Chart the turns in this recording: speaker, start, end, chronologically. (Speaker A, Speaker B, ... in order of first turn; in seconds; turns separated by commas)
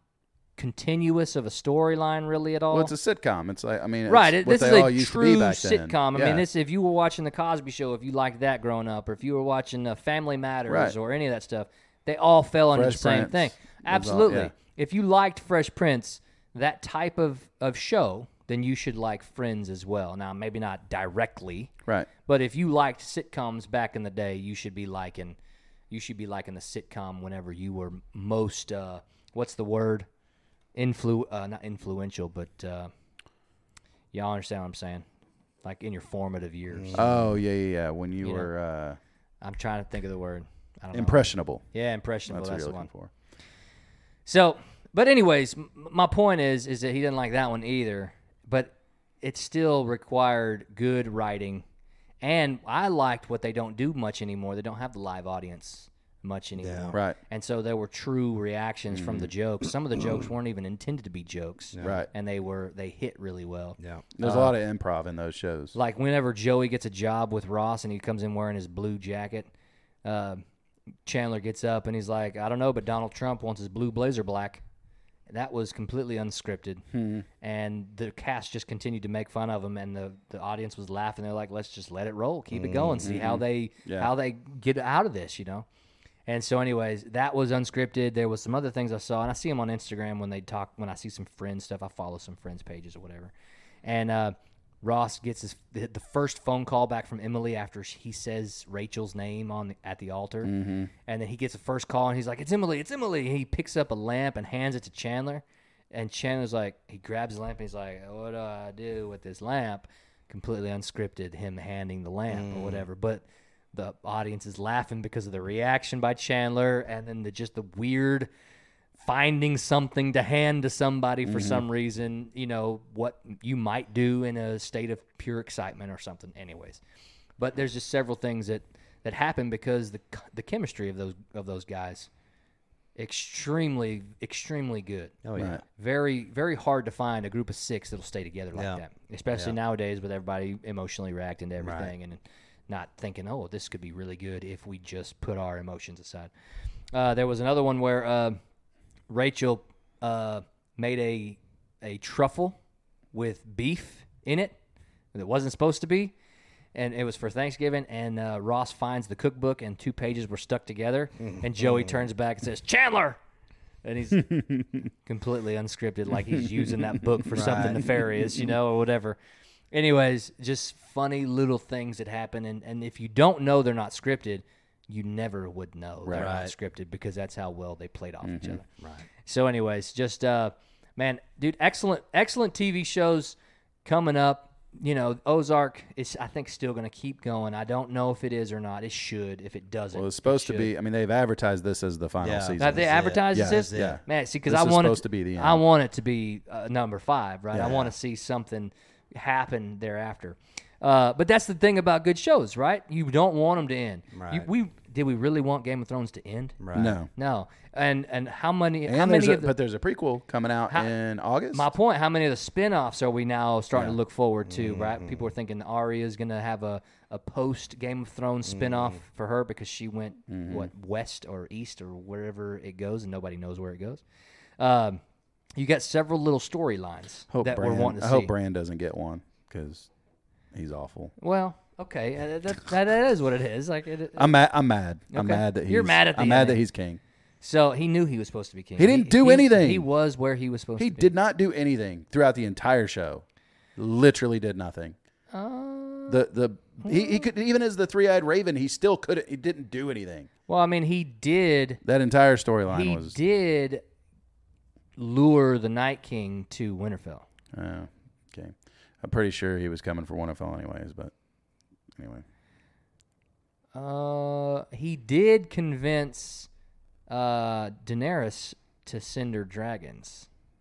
Speaker A: 0.6-2.9, Speaker B: 2.7-6.5, Speaker A: 4.1-21.7, Speaker B: 10.7-10.9, Speaker B: 12.7-14.5, Speaker A: 22.2-25.4, Speaker A: 25.9-30.1, Speaker A: 30.7-32.9, Speaker A: 34.1-35.0, Speaker A: 35.6-37.1, Speaker C: 36.7-37.2, Speaker B: 36.9-39.0, Speaker A: 38.2-38.5, Speaker A: 39.4-42.9, Speaker B: 40.9-41.6, Speaker B: 42.3-43.1, Speaker A: 44.2-51.6, Speaker A: 52.2-64.5, Speaker C: 56.6-57.0, Speaker B: 58.9-59.3, Speaker C: 61.8-62.0, Speaker B: 61.8-62.1, Speaker C: 63.8-64.0, Speaker B: 64.2-65.7, Speaker A: 65.7-69.5, Speaker A: 70.0-70.4, Speaker A: 71.0-74.6, Speaker A: 75.3-76.8, Speaker B: 76.9-77.2, Speaker A: 77.4-85.7, Speaker C: 82.5-83.1, Speaker B: 83.0-84.1, Speaker A: 86.3-93.3, Speaker A: 93.8-100.5, Speaker B: 100.4-100.9, Speaker A: 101.0-113.2, Speaker C: 112.3-112.8, Speaker A: 113.7-118.3, Speaker A: 119.0-126.8, Speaker B: 121.2-121.6, Speaker A: 127.4-132.1, Speaker A: 132.9-135.2, Speaker C: 135.2-135.6, Speaker B: 135.3-135.6, Speaker A: 135.7-146.3, Speaker C: 138.5-138.8, Speaker C: 141.6-141.9, Speaker A: 146.9-148.4, Speaker A: 149.1-152.6, Speaker A: 153.1-154.6, Speaker A: 155.1-156.1, Speaker A: 156.7-163.2, Speaker C: 161.2-162.0, Speaker A: 163.8-164.3, Speaker B: 164.2-164.8, Speaker A: 165.1-169.2, Speaker B: 166.6-168.5, Speaker C: 167.3-168.0, Speaker A: 169.7-178.6, Speaker B: 176.0-176.3, Speaker C: 176.2-176.5, Speaker B: 178.2-178.6, Speaker C: 178.8-179.1, Speaker A: 179.2-190.7, Speaker B: 189.9-195.6, Speaker C: 192.2-194.0, Speaker A: 192.6-206.6, Speaker B: 197.5-197.9, Speaker C: 204.1-204.5, Speaker C: 206.6-207.0, Speaker B: 206.7-207.1, Speaker A: 207.2-209.5, Speaker B: 208.9-211.7, Speaker A: 211.5-224.0, Speaker C: 214.5-215.3, Speaker C: 218.4-219.0, Speaker B: 220.3-220.7, Speaker A: 224.6-225.0, Speaker A: 225.6-228.3, Speaker B: 227.3-229.9, Speaker B: 230.5-231.1, Speaker A: 231.2-234.4, Speaker B: 234.2-237.0, Speaker A: 235.1-236.6, Speaker A: 237.4-241.1, Speaker B: 238.8-239.9, Speaker B: 240.8-243.2, Speaker B: 243.8-244.9, Speaker A: 245.3-246.3, Speaker B: 246.1-250.3, Speaker A: 246.8-247.3, Speaker A: 250.5-251.8, Speaker B: 251.8-253.2, Speaker A: 252.7-253.8, Speaker A: 255.0-257.2, Speaker B: 257.5-261.1, Speaker B: 261.9-262.2, Speaker A: 263.7-266.5, Speaker A: 267.1-270.3